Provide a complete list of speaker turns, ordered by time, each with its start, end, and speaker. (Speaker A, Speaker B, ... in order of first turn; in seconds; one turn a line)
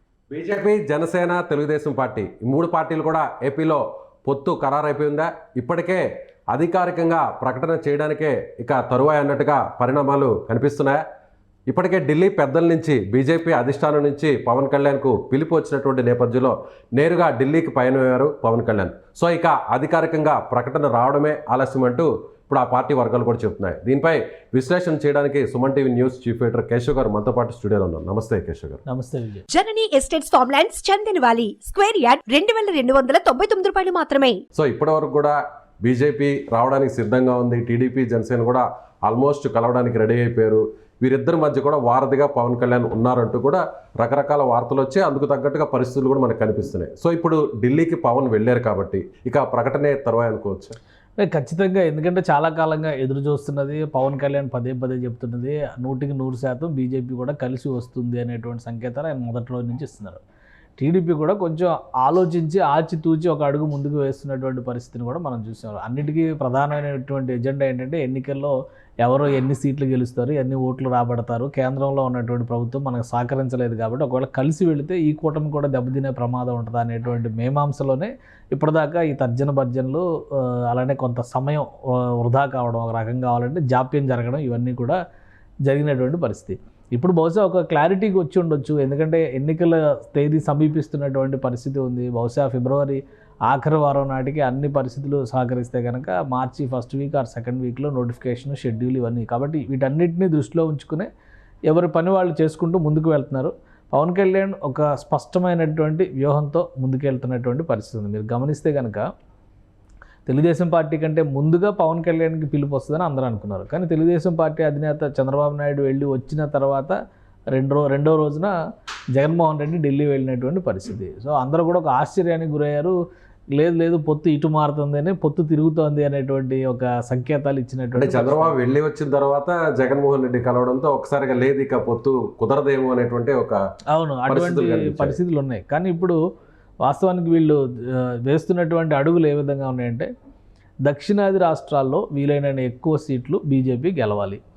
Speaker A: 0.3-11.0
Speaker A: 11.7-28.8
Speaker B: 28.9-29.4
Speaker C: 29.5-34.4
Speaker A: 34.5-50.7
Speaker B: 51.2-60.2
Speaker B: 60.8-85.0
Speaker B: 85.7-101.1
Speaker B: 101.7-109.1
Speaker B: 110.2-117.0
Speaker B: 117.5-118.5
Speaker B: 119.1-122.9
Speaker B: 123.5-128.6
Speaker A: 127.9-133.6
Speaker B: 133.9-136.2
Speaker A: 134.3-135.2
Speaker B: 136.8-140.1
Speaker B: 140.8-144.4